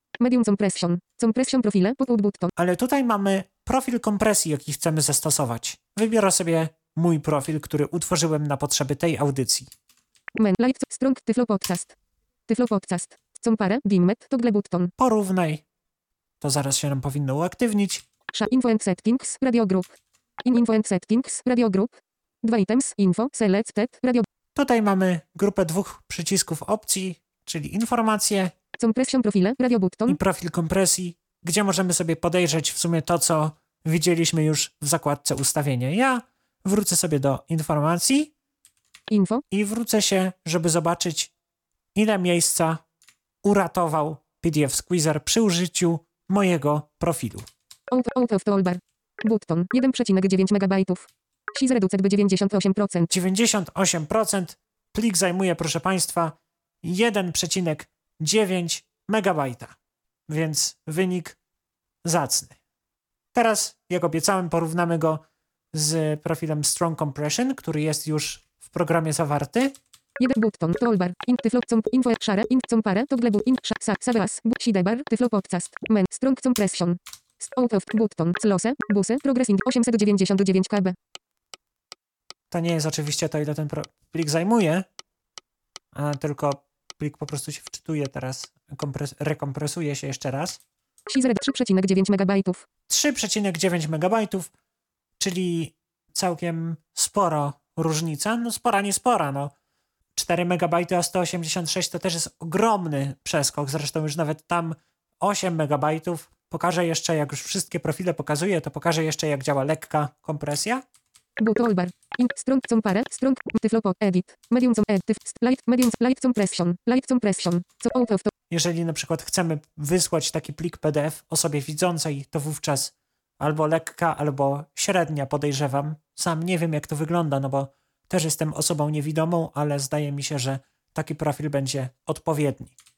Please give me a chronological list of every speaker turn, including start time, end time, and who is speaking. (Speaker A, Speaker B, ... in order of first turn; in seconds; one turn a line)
Speaker A: 0.2-2.5
Speaker B: 2.6-9.7
Speaker A: 10.4-11.9
Speaker A: 12.5-14.9
Speaker B: 15.0-15.6
Speaker B: 16.4-18.0
Speaker A: 18.3-24.3
Speaker B: 24.6-28.5
Speaker A: 28.8-30.2
Speaker B: 30.1-38.3
Speaker A: 39.1-39.4
Speaker B: 39.5-41.3
Speaker B: 42.0-42.8
Speaker B: 43.4-47.5
Speaker A: 47.9-53.1
Speaker B: 53.1-59.8
Speaker B: 60.3-61.4
Speaker B: 62.0-62.6
Speaker B: 63.3-69.8
Speaker A: 70.2-81.0
Speaker B: 82.5-84.9
Speaker B: 85.9-90.6
Speaker A: 91.1-92.7
Speaker B: 92.9-94.5
Speaker B: 95.2-99.5
Speaker B: 100.2-110.8
Speaker A: 111.4-118.3
Speaker B: 118.5-132.7